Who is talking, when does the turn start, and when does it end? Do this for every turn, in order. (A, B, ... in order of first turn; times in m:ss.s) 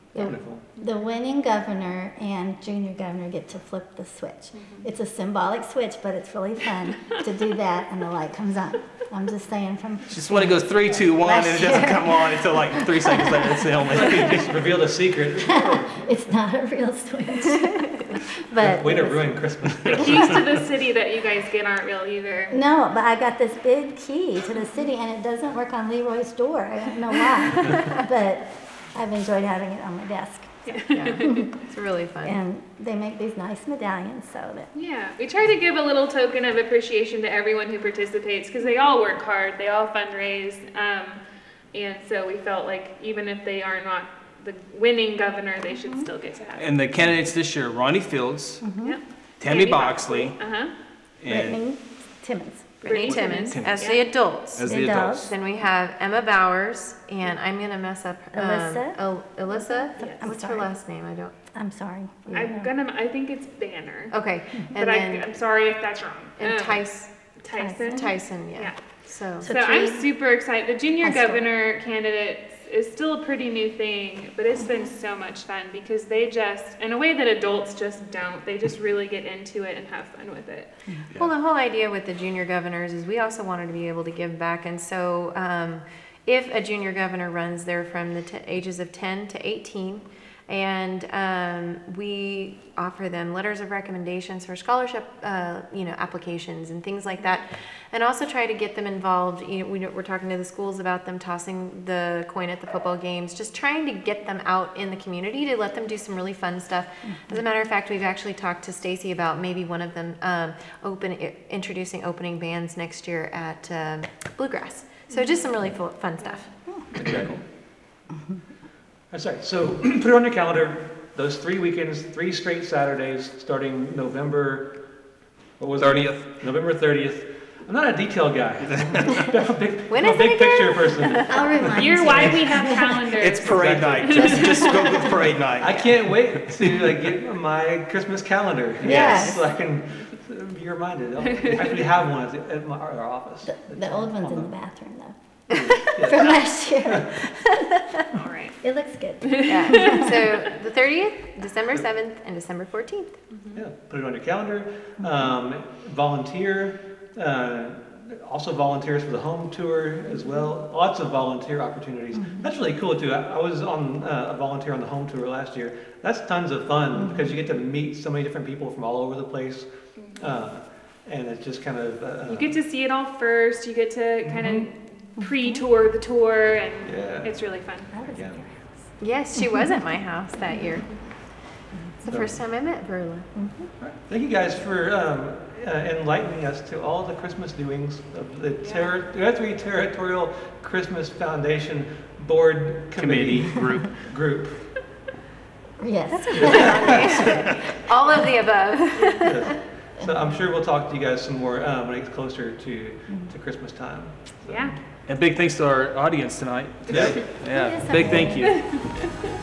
0:00.1-0:00.4 A
0:00.2-0:00.6 B
0:00.2-0:13.6 C
0:04.5-0:04.9 D
0:10.1-0:14.6 E
0:13.9-0:16.1 B
0:15.5-0:19.5 C
0:18.6-0:20.5 B
0:19.8-0:20.4 E
0:19.9-0:22.6 D
0:22.5-0:31.4 C
0:30.7-0:31.4 D
0:30.9-0:32.4 A
0:32.2-0:34.7 C
0:34.7-0:46.7 D
0:46.6-0:48.8 E
0:48.6-0:49.0 C
0:48.8-0:50.7 D
0:49.4-0:50.4 E
0:51.2-0:51.6 E
0:51.3-0:52.8 C
0:52.8-1:01.4 A
0:52.8-0:54.0 D
0:53.0-0:54.0 E
0:54.5-0:55.3 E
0:54.7-0:55.3 C
0:58.3-1:00.7 C
1:00.0-1:00.3 D
1:01.5-1:02.7 C
1:02.3-1:20.8 D
1:04.1-1:05.3 A
1:06.4-1:07.4 A
1:07.5-1:08.2 C
1:07.9-1:09.5 A
1:09.4-1:10.1 C
1:11.0-1:11.4 C
1:14.6-1:14.9 C
1:21.2-1:56.8 A
1:47.0-1:47.4 C
1:56.9-1:57.4 E
1:56.9-1:57.3 B
1:59.1-2:12.3 B
2:05.8-2:06.4 E
2:09.9-2:11.5 A
2:11.3-2:13.0 C
2:11.8-2:15.0 D
2:13.1-2:16.1 E
2:13.4-2:14.7 B
2:15.5-2:24.5 B
2:18.8-2:19.4 A
2:18.8-2:19.4 C
2:18.9-2:19.3 E
2:21.3-2:21.6 D
2:23.4-2:28.0 C
2:25.5-2:27.1 B
2:28.2-2:28.6 D
2:28.6-2:30.2 C
2:29.2-2:30.2 D
2:29.5-2:33.2 A
2:33.3-2:33.6 D
2:33.5-2:52.6 B
2:35.0-2:35.3 C
2:42.2-2:42.5 C
2:46.9-2:47.3 C
2:50.0-2:50.3 D
2:52.3-2:58.0 D
2:54.2-2:54.7 B
2:55.2-2:55.6 C
2:56.8-2:58.6 B
2:57.9-2:59.8 C
2:59.0-3:03.3 A
3:02.0-3:02.4 B
3:03.3-3:03.7 C
3:03.8-3:14.9 B
3:08.6-3:08.9 D
3:13.0-3:14.1 E
3:15.8-3:17.0 C
3:16.2-3:19.4 A
3:16.3-3:17.1 B
3:17.0-3:17.6 D
3:17.0-3:17.6 E
3:18.9-3:19.3 D
3:19.2-3:24.8 B
3:24.5-3:24.8 D
3:25.0-3:29.2 E
3:26.9-3:27.4 B
3:27.6-3:28.8 C
3:28.6-3:29.0 D